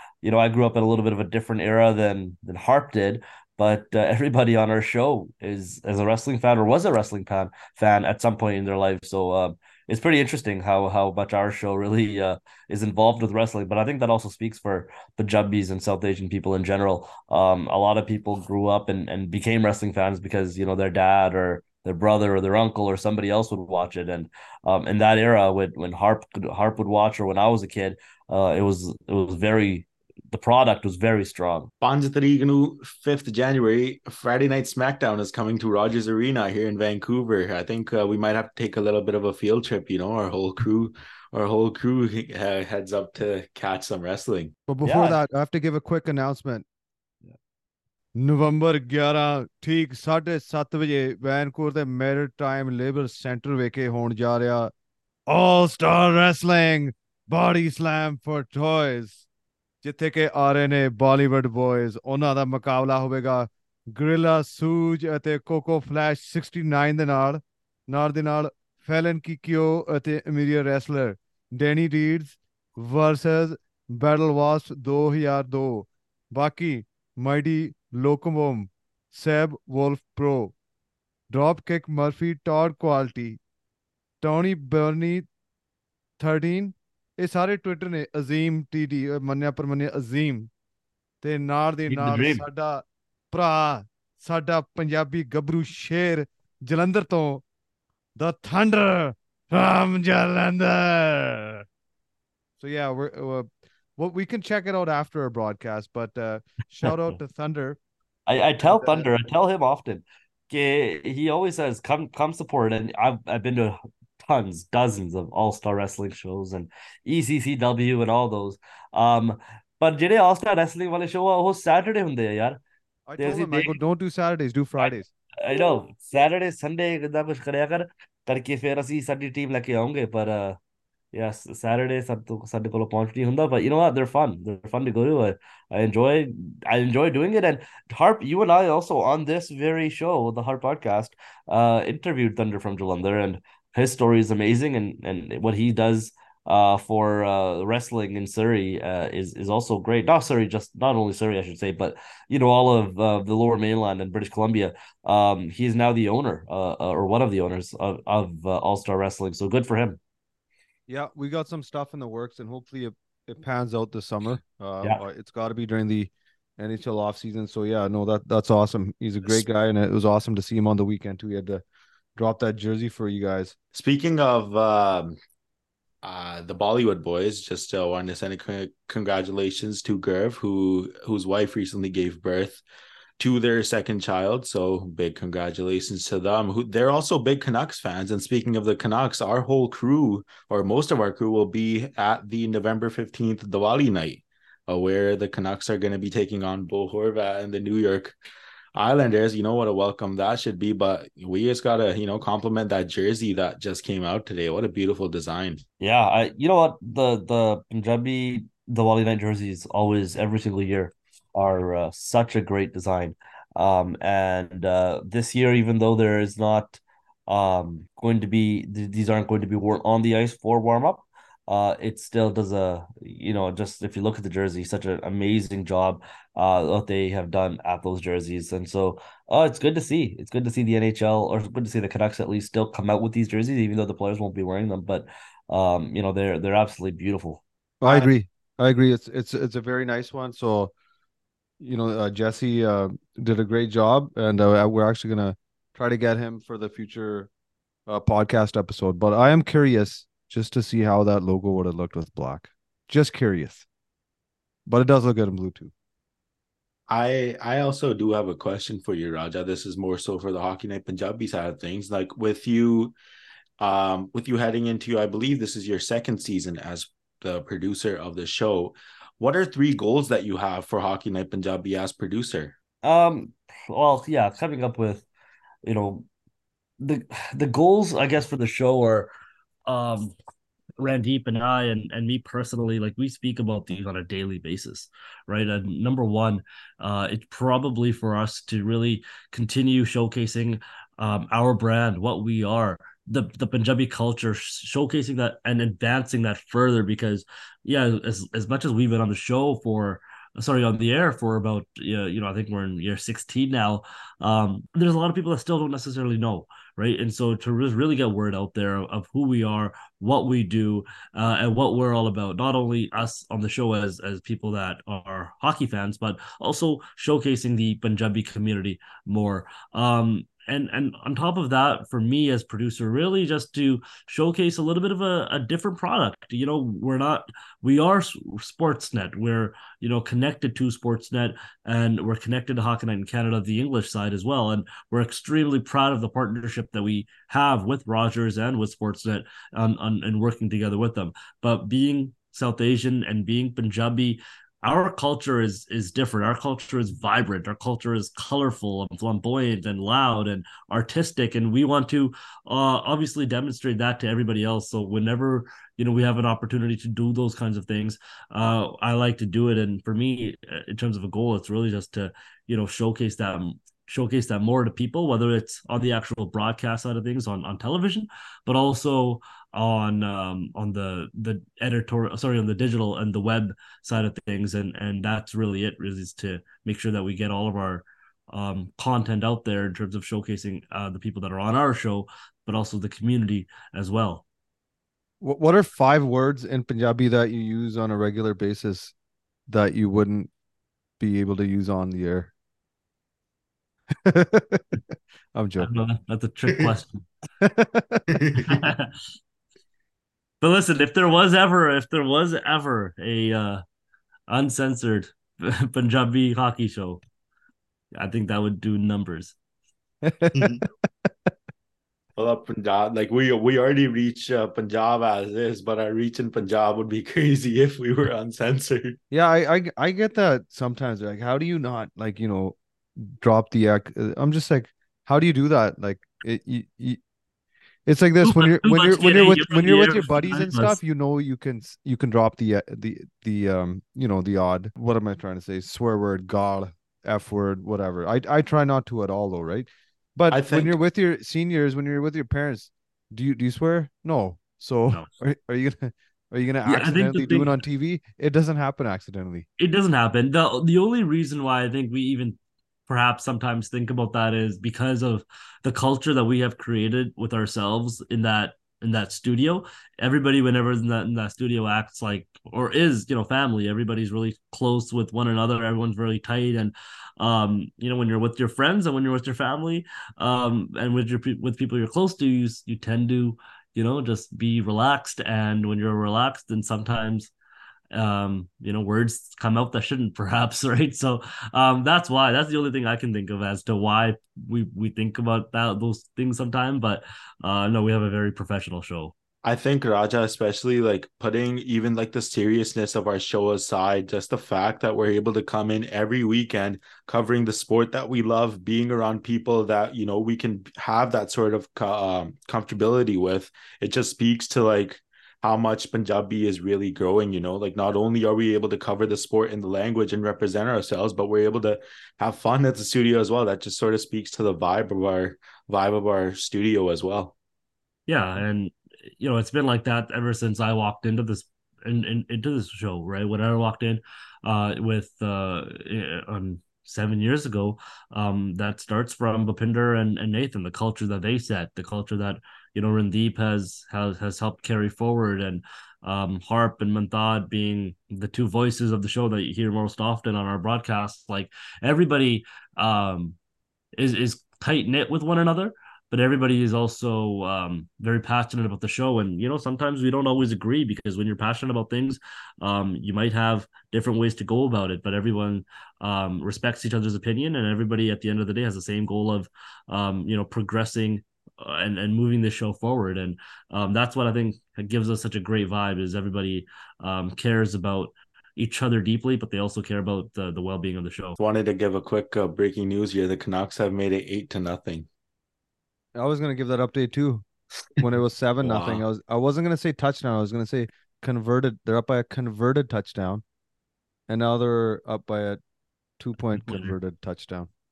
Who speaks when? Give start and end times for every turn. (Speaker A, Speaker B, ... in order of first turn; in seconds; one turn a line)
Speaker A: 0.2-31.7
Speaker B: 31.8-44.5
Speaker C: 44.7-46.7
Speaker A: 44.8-45.2
Speaker C: 48.2-54.7
Speaker C: 55.3-59.2
Speaker C: 59.8-80.5
Speaker C: 81.3-83.4
Speaker C: 84.2-85.3
Speaker C: 86.2-90.5
Speaker C: 91.2-97.4
Speaker A: 91.9-92.5
Speaker C: 98.2-101.6
Speaker C: 102.6-107.8
Speaker A: 108.3-122.6
Speaker C: 108.6-109.1
Speaker C: 123.1-125.1
Speaker A: 123.2-123.8
Speaker A: 124.8-130.6
Speaker A: 131.1-160.0
Speaker C: 160.9-171.6
Speaker C: 172.2-173.6
Speaker B: 173.7-175.2
Speaker B: 176.0-182.6
Speaker B: 183.2-198.2
Speaker B: 198.8-205.6
Speaker A: 205.8-238.1
Speaker C: 237.8-240.7
Speaker C: 241.6-247.3
Speaker C: 247.9-253.7
Speaker C: 254.7-255.7
Speaker B: 256.9-262.9
Speaker B: 263.6-272.5
Speaker A: 272.8-275.1
Speaker A: 275.6-276.1
Speaker A: 276.8-279.1
Speaker A: 279.7-280.1
Speaker A: 280.8-384.2
Speaker C: 385.2-388.9
Speaker C: 389.5-390.3
Speaker C: 391.0-392.3
Speaker C: 394.1-394.8
Speaker C: 395.3-395.7
Speaker A: 395.6-397.1
Speaker C: 397.4-398.2
Speaker B: 398.1-398.5
Speaker A: 398.4-398.9
Speaker A: 400.4-403.6
Speaker A: 404.3-407.0
Speaker A: 407.9-409.4
Speaker C: 410.0-410.5
Speaker B: 410.4-410.6
Speaker B: 412.2-419.0
Speaker C: 419.1-427.0
Speaker C: 427.9-449.5
Speaker A: 428.2-430.8
Speaker B: 440.3-440.7
Speaker A: 446.6-447.5
Speaker A: 449.6-477.3
Speaker A: 477.9-489.1
Speaker B: 489.4-517.4
Speaker A: 518.1-543.4
Speaker A: 544.0-571.4
Speaker B: 571.4-575.1
Speaker C: 576.1-577.5
Speaker C: 578.0-583.4
Speaker B: 578.6-579.0
Speaker C: 584.3-585.6
Speaker C: 586.2-587.7
Speaker A: 586.6-586.9